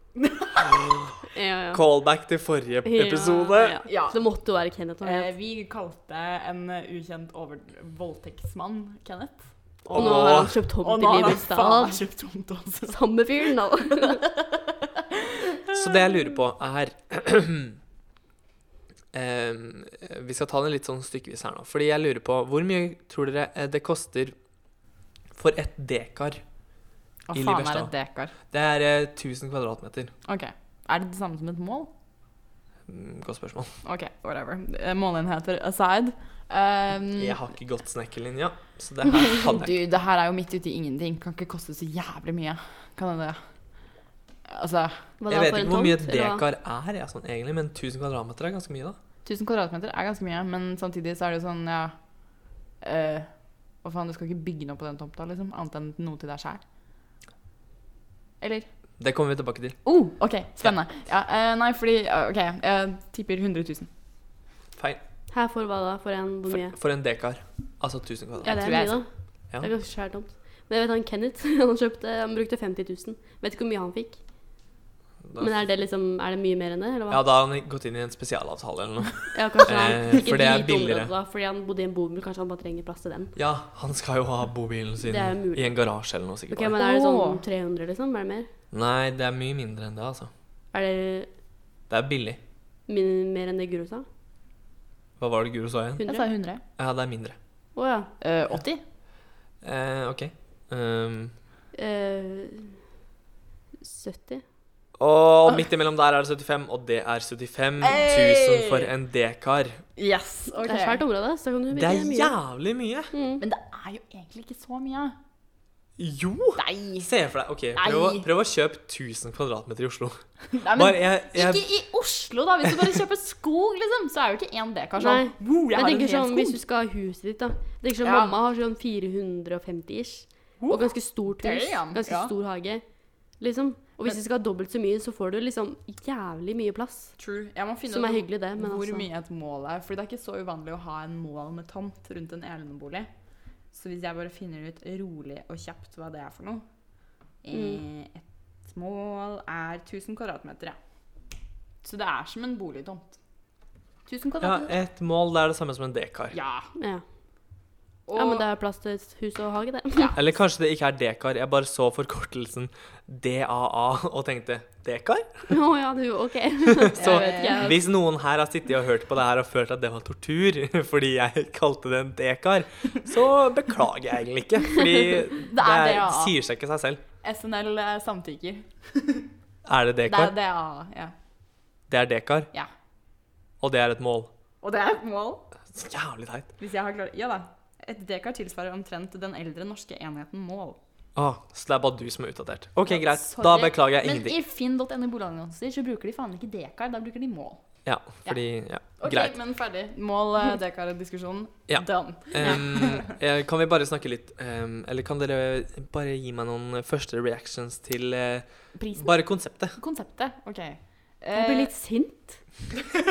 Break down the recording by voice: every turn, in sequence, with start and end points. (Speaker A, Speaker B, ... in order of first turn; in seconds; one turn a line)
Speaker A: 0.2-0.6
Speaker B: 0.6-1.2
Speaker C: 1.3-1.8
Speaker B: 1.7-3.8
Speaker C: 2.9-5.3
Speaker A: 3.9-4.3
Speaker A: 5.0-15.8
Speaker B: 9.9-10.6
Speaker C: 9.9-12.0
Speaker C: 12.9-14.2
Speaker B: 15.7-17.8
Speaker B: 19.1-24.4
Speaker B: 25.4-26.4
Speaker A: 27.3-28.3
Speaker B: 27.3-27.9
Speaker B: 28.5-30.1
Speaker A: 30.2-31.9
Speaker B: 32.9-33.7
Speaker A: 33.8-37.4
Speaker B: 37.2-39.8
Speaker A: 39.3-43.4
Speaker A: 44.5-45.1
Speaker C: 45.2-46.4
Speaker B: 45.3-49.0
Speaker A: 49.2-52.0
Speaker A: 52.8-53.3
Speaker A: 53.8-56.6
Speaker A: 58.4-58.7
Speaker B: 59.0-59.8
Speaker A: 59.9-63.9
Speaker B: 64.8-65.0
Speaker C: 65.3-66.8
Speaker B: 66.5-68.7
Speaker A: 68.4-69.0
Speaker C: 68.4-74.2
Speaker B: 75.3-75.7
Speaker C: 75.4-77.2
Speaker B: 77.1-81.1
Speaker C: 79.3-83.3
Speaker B: 83.4-86.8
Speaker C: 85.0-85.8
Speaker C: 86.5-88.5
Speaker A: 86.8-87.4
Speaker B: 88.7-90.3
Speaker C: 90.7-91.3
Speaker B: 91.9-92.4
Speaker C: 92.9-94.0
Speaker B: 95.2-96.0
Speaker C: 96.0-96.3
Speaker A: 96.1-96.6
Speaker B: 96.8-97.4
Speaker C: 97.8-98.1
Speaker A: 98.2-98.8
Speaker B: 99.6-101.3
Speaker C: 101.8-102.8
Speaker C: 103.8-104.4
Speaker B: 105.0-109.8
Speaker A: 107.8-108.9
Speaker A: 110.0-111.0
Speaker C: 110.6-112.3
Speaker B: 111.7-113.1
Speaker C: 113.1-113.4
Speaker A: 113.4-115.2
Speaker B: 116.0-121.7
Speaker A: 116.6-117.1
Speaker A: 117.8-118.3
Speaker A: 120.5-126.6
Speaker B: 122.7-122.9
Speaker C: 125.0-132.8
Speaker A: 128.0-128.4
Speaker A: 130.6-132.3
Speaker C: 133.4-137.1
Speaker A: 137.2-143.1
Speaker C: 137.9-139.1
Speaker A: 143.7-146.6
Speaker A: 147.4-150.8
Speaker C: 147.5-147.8
Speaker A: 151.8-153.2
Speaker A: 154.1-154.8
Speaker B: 154.4-156.4
Speaker A: 156.3-156.7
Speaker C: 156.8-157.0
Speaker A: 158.1-158.4
Speaker C: 158.2-160.2
Speaker B: 160.2-165.6
Speaker C: 165.5-167.8
Speaker B: 166.8-177.0
Speaker A: 167.0-167.7
Speaker A: 175.3-176.3
Speaker A: 177.2-179.3
Speaker B: 179.7-180.3
Speaker A: 180.1-181.1
Speaker B: 181.9-182.5
Speaker B: 183.6-184.3
Speaker A: 184.6-185.5
Speaker B: 185.7-186.5
Speaker A: 186.6-190.8
Speaker B: 191.2-194.4
Speaker A: 192.9-197.6
Speaker B: 197.8-199.3
Speaker A: 199.0-203.2
Speaker B: 201.7-209.8
Speaker A: 208.8-211.7
Speaker C: 211.3-212.6